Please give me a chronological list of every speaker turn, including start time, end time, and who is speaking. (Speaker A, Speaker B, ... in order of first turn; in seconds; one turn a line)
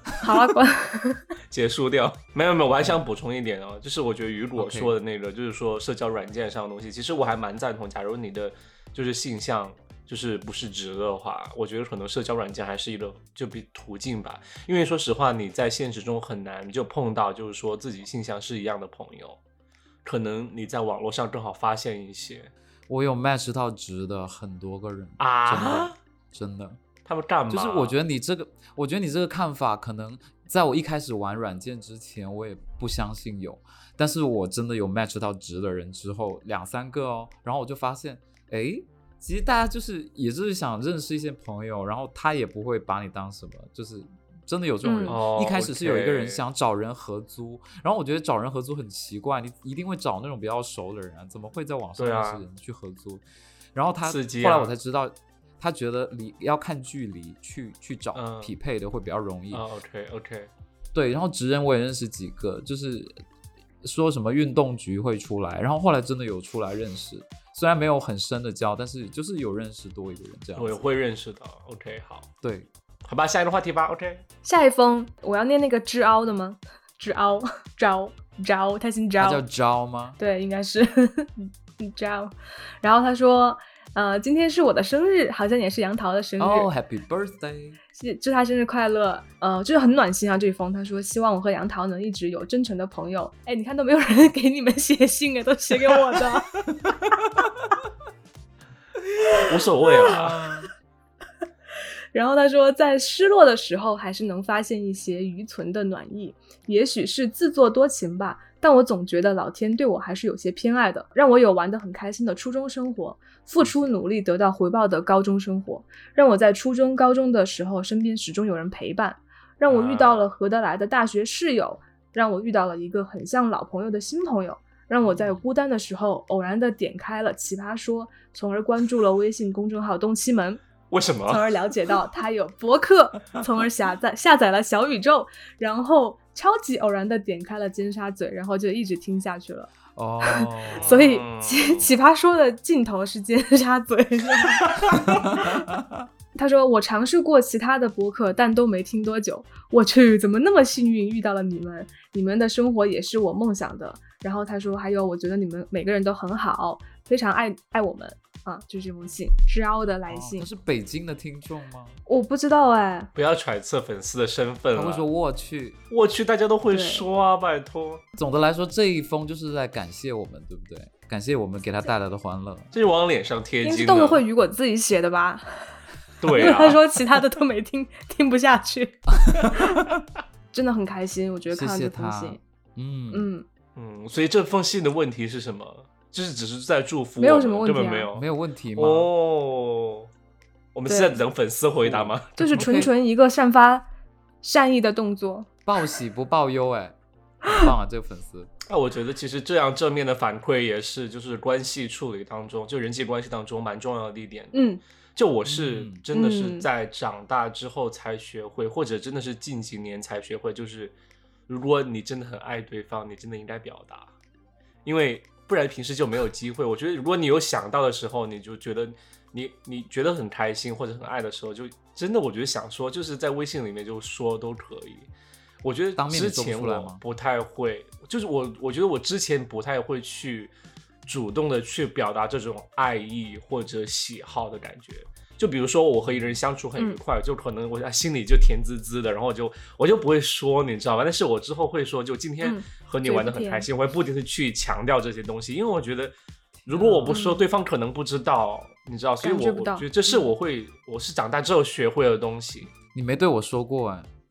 Speaker A: 0.2-1.3
Speaker B: 1.5-19.4
Speaker C: 4.5-4.9
Speaker B: 20.0-22.5
Speaker C: 22.9-26.8
Speaker B: 25.2-25.9
Speaker B: 27.0-27.9
Speaker C: 27.5-53.2
Speaker A: 44.8-45.2
Speaker B: 45.0-46.4
Speaker B: 52.0-52.4
Speaker C: 53.7-59.6
Speaker B: 54.0-54.7
Speaker B: 58.1-58.5
Speaker B: 59.5-60.5
Speaker C: 60.9-63.2
Speaker C: 63.8-70.8
Speaker B: 70.5-72.3
Speaker C: 72.4-72.7
Speaker B: 73.0-74.2
Speaker A: 74.4-79.4
Speaker C: 79.2-80.2
Speaker A: 80.2-86.7
Speaker C: 86.4-87.8
Speaker A: 87.9-96.5
Speaker A: 99.4-100.1
Speaker B: 99.4-100.4
Speaker C: 100.0-100.7
Speaker A: 102.1-130.6
Speaker B: 119.7-120.3
Speaker C: 125.0-125.4
Speaker B: 130.9-131.5
Speaker A: 131.3-139.7
Speaker C: 139.9-140.9
Speaker A: 140.2-145.7
Speaker B: 140.7-141.9
Speaker C: 144.9-146.0
Speaker A: 146.3-160.5
Speaker C: 160.1-162.0
Speaker A: 162.1-163.1
Speaker B: 163.1-165.0
Speaker C: 164.7-165.8
Speaker B: 165.9-168.0
Speaker A: 166.7-167.1
Speaker C: 168.2-172.7
Speaker B: 172.7-174.2
Speaker A: 173.6-179.8
Speaker B: 176.2-176.8
Speaker C: 179.2-180.0
Speaker A: 180.5-182.4
Speaker C: 181.5-183.3
Speaker A: 183.1-183.4
Speaker B: 183.8-190.1
Speaker A: 187.2-188.1
Speaker C: 188.1-189.1
Speaker B: 190.7-192.6
Speaker A: 190.9-191.2
Speaker C: 191.8-192.9
Speaker A: 192.4-193.8
Speaker A: 194.4-195.5
Speaker C: 195.7-198.5
Speaker B: 198.7-204.6
Speaker A: 204.5-204.8
Speaker B: 205.2-210.9
Speaker C: 205.4-206.0
Speaker A: 206.1-206.7
Speaker B: 211.5-214.1
Speaker B: 214.8-225.1
Speaker B: 225.6-230.5
Speaker C: 226.0-227.0
Speaker B: 231.0-246.1
Speaker C: 236.1-236.3
Speaker A: 242.4-243.7
Speaker C: 246.6-247.1
Speaker B: 246.7-252.7
Speaker A: 247.1-247.5
Speaker A: 249.2-250.3
Speaker C: 252.9-254.1